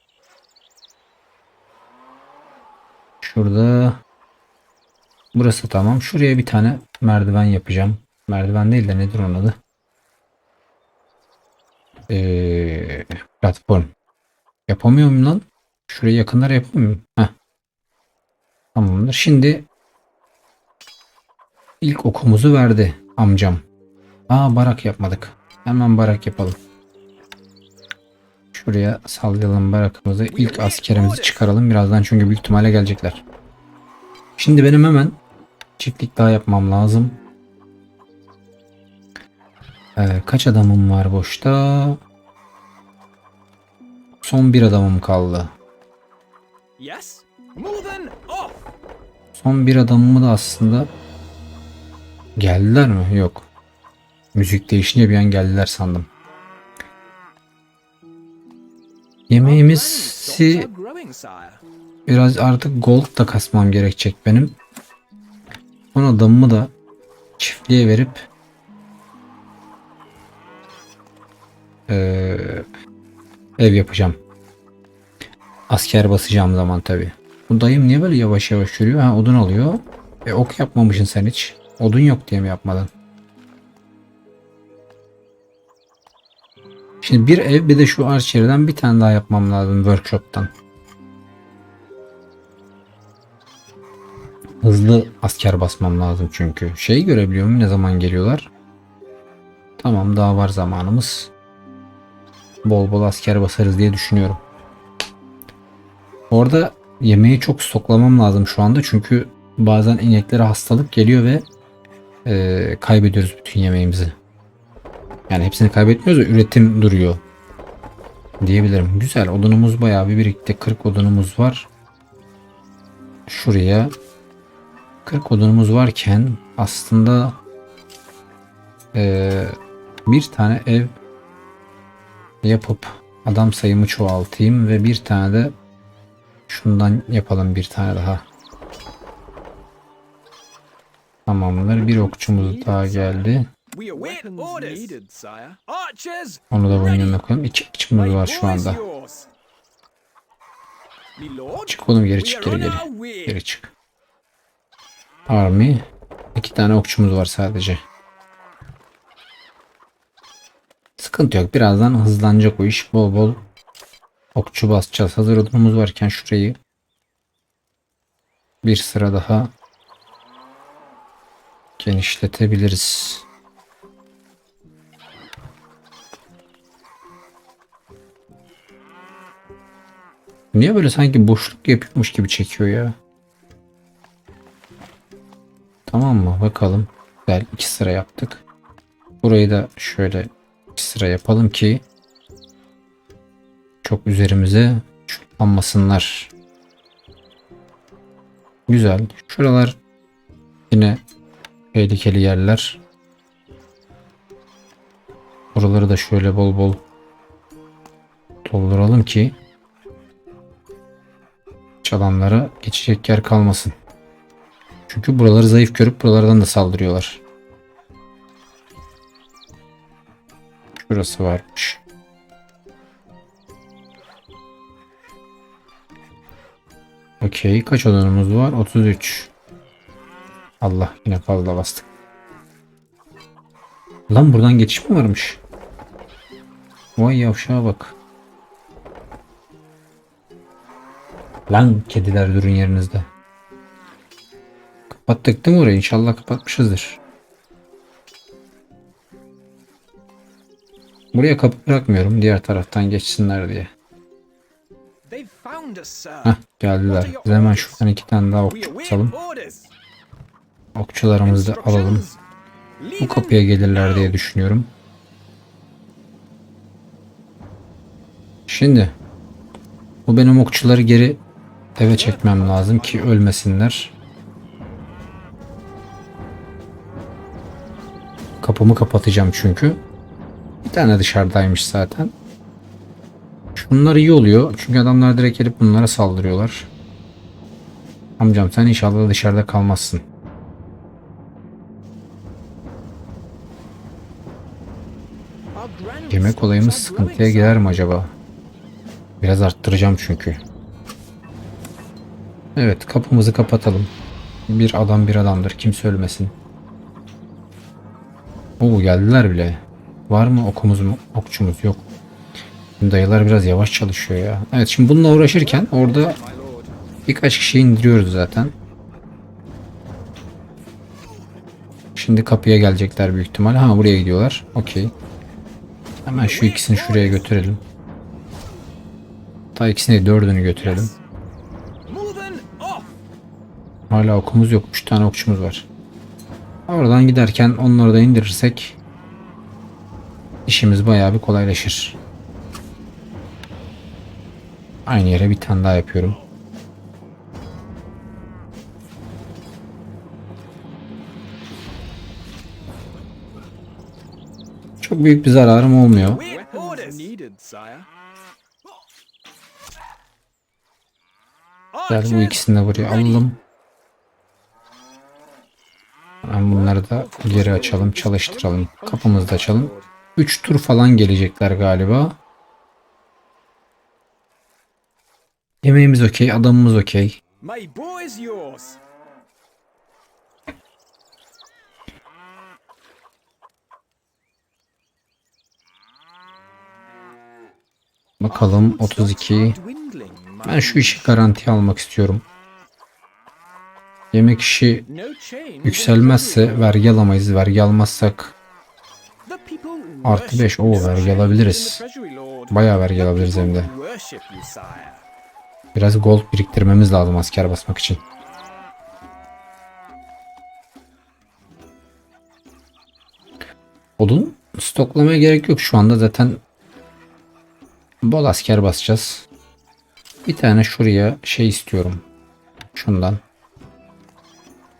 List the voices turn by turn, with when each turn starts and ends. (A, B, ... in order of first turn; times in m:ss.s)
0:03.2-0:04.0 A
0:05.3-0:09.6 A
0:12.1-0:13.9 A
0:14.7-0:17.3 A
0:18.7-0:19.6 A
0:21.8-0:23.6 A
0:24.3-0:26.6 A
0:28.5-0:33.2 A
0:30.3-0:31.5 B
0:34.4-0:35.2 A
0:35.8-0:37.2 A
0:40.0-0:42.0 A
0:44.2-0:45.5 A
0:46.8-0:48.7 B
0:49.3-0:50.9 A
0:52.4-0:53.5 A
0:54.3-0:56.1 A
0:59.3-1:00.7 A
0:59.4-1:01.6 B
1:02.1-1:04.6 A
1:05.9-1:06.7 A
1:07.4-1:08.2 A
1:11.9-1:12.6 A
1:13.6-1:14.2 A
1:15.7-1:22.9 A
1:27.0-1:30.5 A
1:34.6-1:38.5 A
1:39.8-1:41.3 A
1:42.6-1:44.4 A
1:46.3-1:51.4 A
1:52.2-1:54.1 A
1:55.3-1:57.2 A
1:58.4-2:01.7 A
2:03.3-2:03.9 A
2:05.0-2:07.4 A
2:08.9-2:10.9 A
2:12.4-2:15.5 A
2:16.5-2:18.2 A
2:21.2-2:23.5 A
2:21.8-2:27.2 B
2:26.5-2:28.8 A
2:27.9-2:29.3 B
2:31.2-2:33.4 B
2:31.7-2:33.7 A
2:35.3-2:35.8 A
2:36.3-2:37.8 A
2:41.0-2:43.4 A
2:44.3-2:46.6 A
2:48.6-2:49.5 A
2:51.8-2:53.2 A
3:00.5-3:02.9 A
3:05.9-3:08.4 A
3:09.2-3:11.8 A
3:13.8-3:16.3 A
3:18.7-3:19.8 A
3:20.7-3:21.0 A
3:21.7-3:22.8 A
3:25.5-3:26.8 A
3:28.4-3:29.4 A
3:31.8-3:33.7 A
3:34.9-3:37.2 A
3:40.8-3:41.8 A
3:47.2-3:49.3 A
3:50.6-3:51.8 A
3:54.1-3:55.4 A
3:57.0-3:57.9 A
4:01.5-4:03.0 A
4:04.9-4:07.0 A
4:11.1-4:13.7 A
4:15.0-4:17.8 B
4:16.2-4:19.1 A
4:18.4-4:19.7 B
4:20.8-4:22.1 A
4:21.2-4:22.2 B
4:22.8-4:24.2 B
4:23.0-4:24.7 A
4:28.5-4:28.9 A
4:30.0-4:31.2 A
4:31.8-4:33.9 A
4:31.9-4:33.2 B
4:38.4-4:39.8 A
4:40.6-4:42.1 A
4:43.6-4:46.7 A
4:48.2-4:50.0 A
4:55.5-4:57.6 B
4:56.1-4:58.1 A
4:59.2-5:00.4 A
5:02.6-5:03.9 A
5:04.5-5:06.3 A
5:08.6-5:11.8 A
5:12.8-5:16.2 A
5:15.1-5:16.7 B
5:17.1-5:18.5 A
5:22.0-5:24.9 A
5:26.0-5:27.6 A
5:26.1-5:27.3 B
5:29.5-5:30.9 A
5:30.5-5:31.0 B
5:31.8-5:32.9 B
5:33.9-5:35.7 A
5:36.7-5:38.8 A
5:40.5-5:42.0 A
5:44.8-5:46.2 A
5:54.8-5:56.2 A
5:56.0-5:57.9 B
6:01.7-6:03.2 B
6:01.9-6:03.4 A
6:06.2-6:12.2 A
6:06.4-6:09.9 B
6:15.6-6:17.2 A
6:17.4-6:18.8 B
6:28.2-6:29.6 A
6:28.3-6:31.2 B
6:30.4-6:32.2 A
6:34.1-6:34.9 A
6:34.8-6:36.8 B
6:35.6-6:38.3 A
6:39.2-6:45.0 B
6:40.0-6:41.8 A
6:42.5-6:43.7 A
6:45.7-6:48.0 A
6:54.0-6:56.4 A
6:58.0-6:59.2 A
7:00.2-7:02.0 A
7:02.7-7:03.2 A